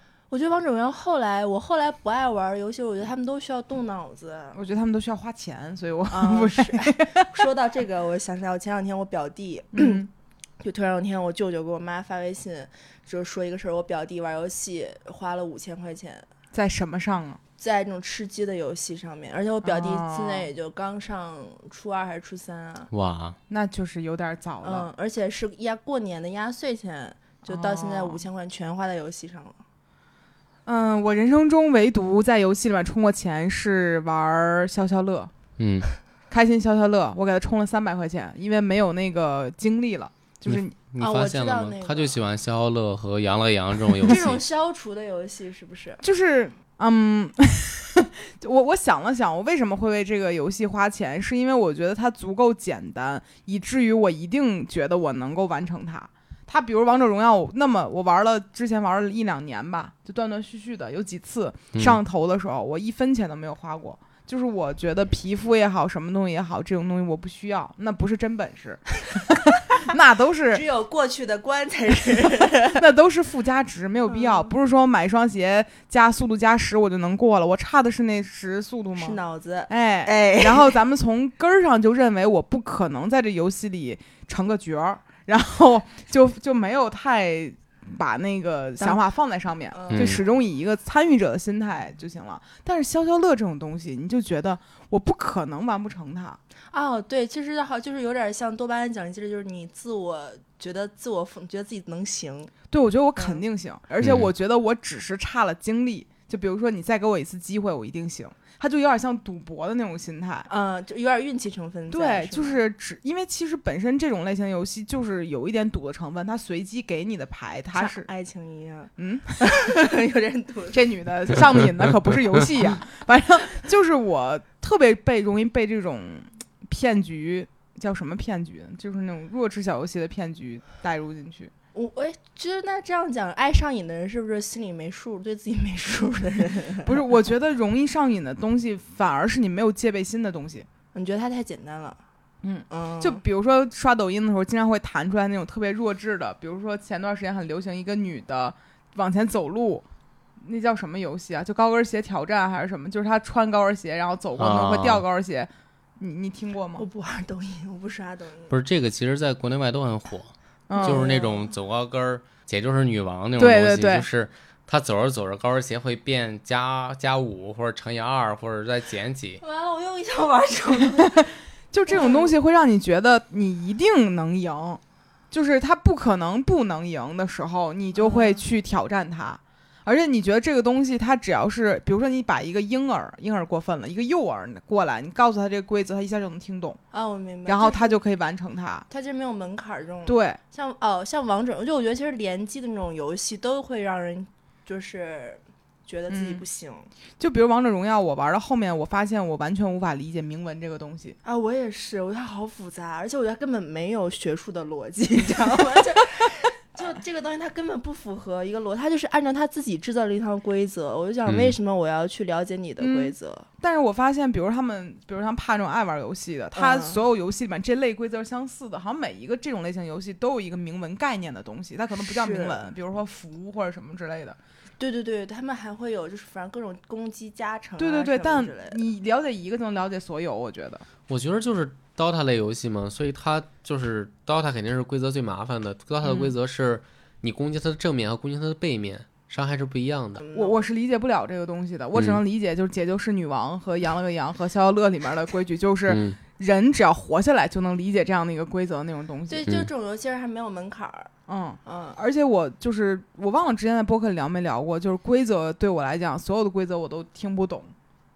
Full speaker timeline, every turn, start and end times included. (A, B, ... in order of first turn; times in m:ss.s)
0:00.3-0:04.6 A
0:04.5-0:07.4 B
0:06.1-0:10.1 A
0:09.7-0:10.1 B
0:10.6-0:16.3 A
0:16.5-0:17.4 B
0:17.6-0:22.9 A
0:19.6-0:20.5 B
0:22.9-0:23.4 C
0:23.5-0:24.9 B
0:24.6-0:29.6 A
0:27.5-0:28.2 B
0:30.7-0:35.3 B
0:35.6-0:35.9 C
0:36.3-0:40.7 B
0:40.5-0:44.4 C
0:41.0-0:42.2 A
0:44.1-0:46.0 A
0:46.0-1:09.0 B
1:09.8-1:10.6 B
1:10.5-1:12.8 A
1:12.8-1:36.4 B
1:14.1-1:14.5 A
1:19.0-1:20.8 A
1:29.7-1:30.2 A
1:29.9-1:30.2 C
1:36.7-1:42.5 A
1:42.7-1:50.5 B
1:43.2-1:43.4 A
1:44.0-1:44.3 C
1:50.5-1:52.6 A
1:51.9-1:58.1 B
1:57.7-2:00.8 A
1:59.0-1:59.4 B
2:00.7-2:11.5 B
2:11.8-2:16.9 A
2:16.8-2:20.7 B
2:20.9-2:22.0 A
2:22.4-2:29.8 B
2:22.7-2:23.2 A
2:30.4-2:36.8 B
2:34.4-2:35.0 C
2:36.8-2:38.5 A
2:38.5-2:49.4 C
2:40.7-2:41.1 B
2:40.8-2:41.5 A
2:43.4-2:44.1 B
2:49.4-2:51.3 A
2:51.7-3:06.8 B
2:51.9-2:52.3 A
2:58.0-2:58.4 A
3:06.9-3:08.0 A
3:07.5-3:08.9 B
3:08.9-3:16.9 A
3:10.1-3:10.4 B
3:16.1-3:16.4 B
3:17.2-3:21.2 B
3:21.2-3:33.5 A
3:31.3-3:31.5 C
3:32.8-3:44.4 B
3:36.6-3:37.0 A
3:42.1-3:42.6 A
3:44.8-3:48.8 A
3:47.8-3:50.9 B
3:51.1-4:00.2 C
3:56.0-3:56.3 B
4:00.2-4:00.6 A
4:00.3-4:09.5 B
4:05.9-4:06.2 C
4:09.3-4:11.1 A
4:11.3-4:17.7 B
4:11.6-4:12.0 A